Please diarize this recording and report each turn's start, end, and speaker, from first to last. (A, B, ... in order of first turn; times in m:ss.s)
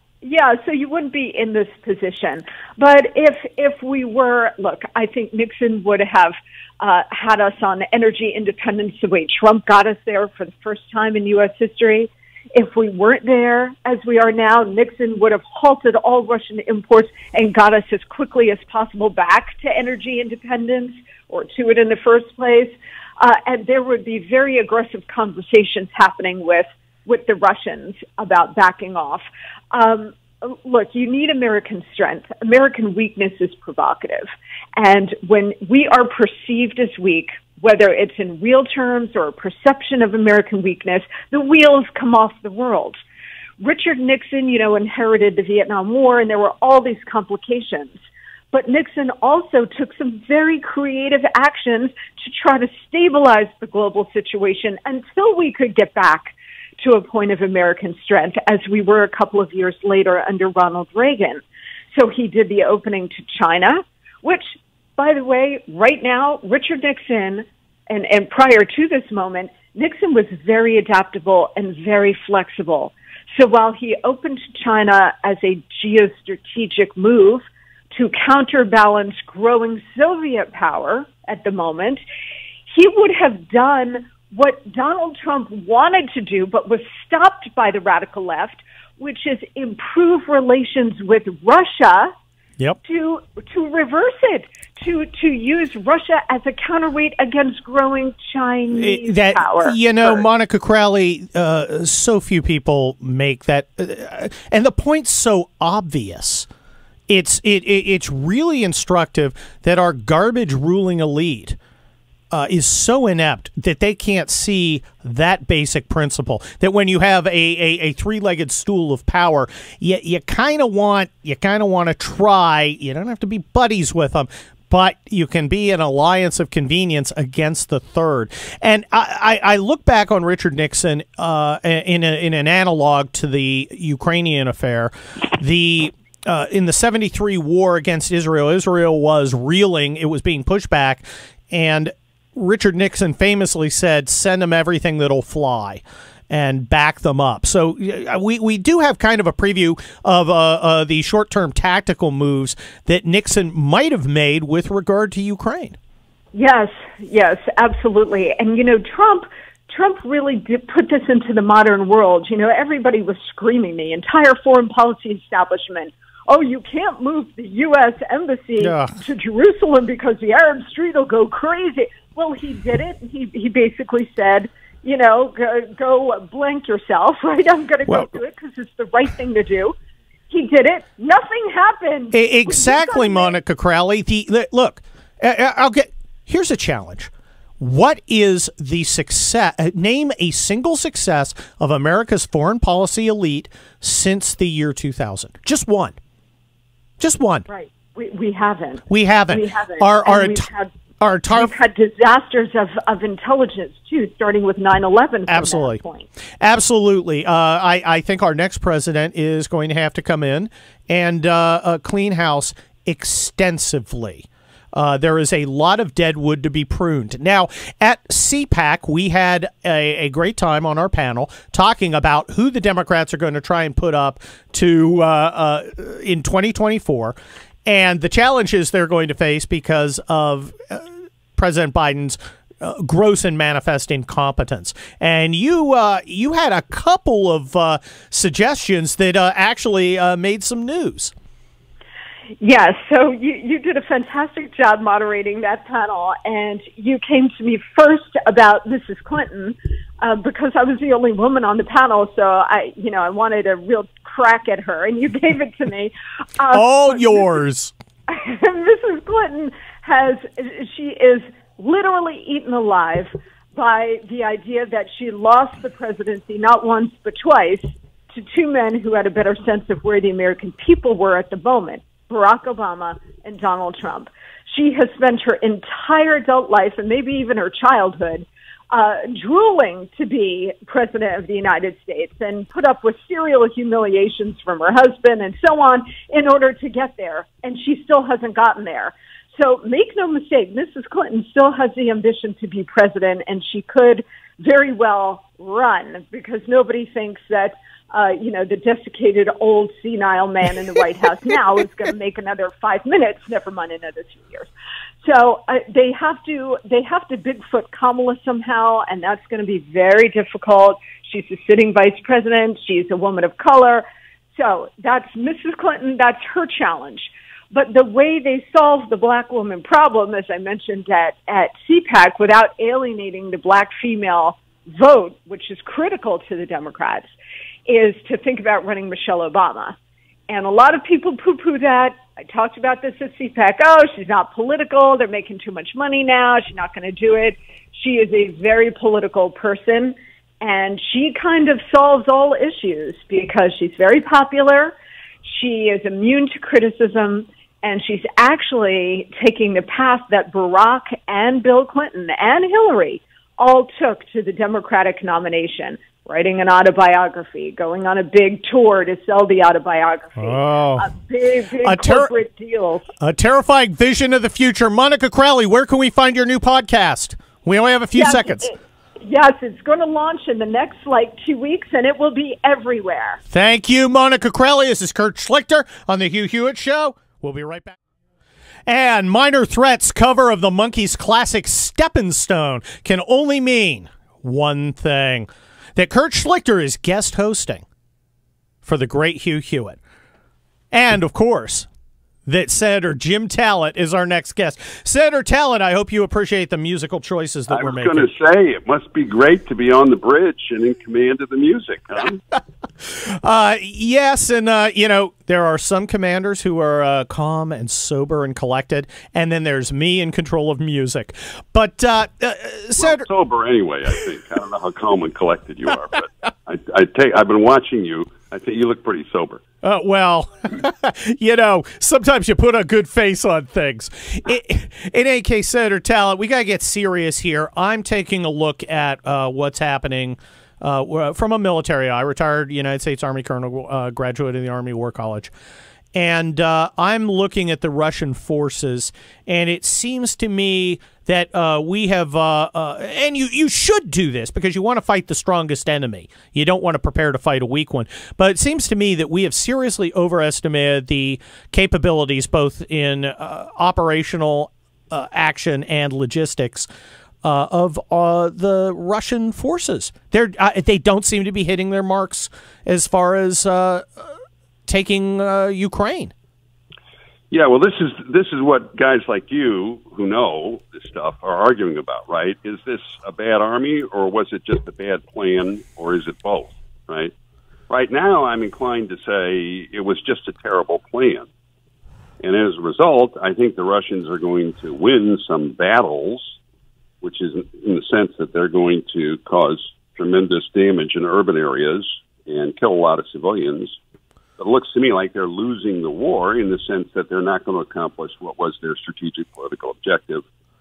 0:00.2-0:43.0 A
0:43.6-0:48.0 A
0:48.5-1:04.4 A
1:05.0-1:22.0 A
1:22.7-1:32.1 A
1:32.8-1:40.2 A
1:38.7-1:46.5 B
1:47.1-1:51.6 B
1:52.3-2:35.8 B
2:36.3-2:59.8 A
2:48.6-2:49.0 B
2:57.9-2:58.1 B
3:00.3-3:03.4 A
3:02.1-3:16.0 B
3:17.0-3:17.5 B
3:17.5-3:20.7 A
3:18.9-3:20.5 B
3:21.0-3:21.5 B
3:21.3-3:26.1 A
3:25.3-3:25.8 B
3:26.4-3:47.2 B
3:47.6-4:01.1 B
4:02.4-4:17.3 A
4:16.5-4:17.7 B
4:18.1-5:04.5 A
5:05.0-5:27.1 A
5:27.7-5:29.8 A
5:30.3-6:02.9 A
6:00.2-6:00.9 B
6:01.6-6:02.1 B
6:03.0-6:08.5 B
6:08.0-6:13.2 A
6:13.3-6:17.8 B
6:18.7-6:27.6 B
6:28.6-6:29.8 B
6:30.7-6:31.7 B
6:32.3-6:38.1 B
6:37.5-6:42.2 C
6:42.8-6:53.1 B
6:52.8-6:59.4 C
6:59.6-7:15.3 B
7:15.9-7:36.7 B
7:37.2-7:44.2 B
7:44.7-7:46.1 B
7:47.3-7:57.1 C
7:57.7-8:01.3 C
8:02.2-8:06.4 C
8:07.0-8:13.8 C
8:14.4-8:20.2 C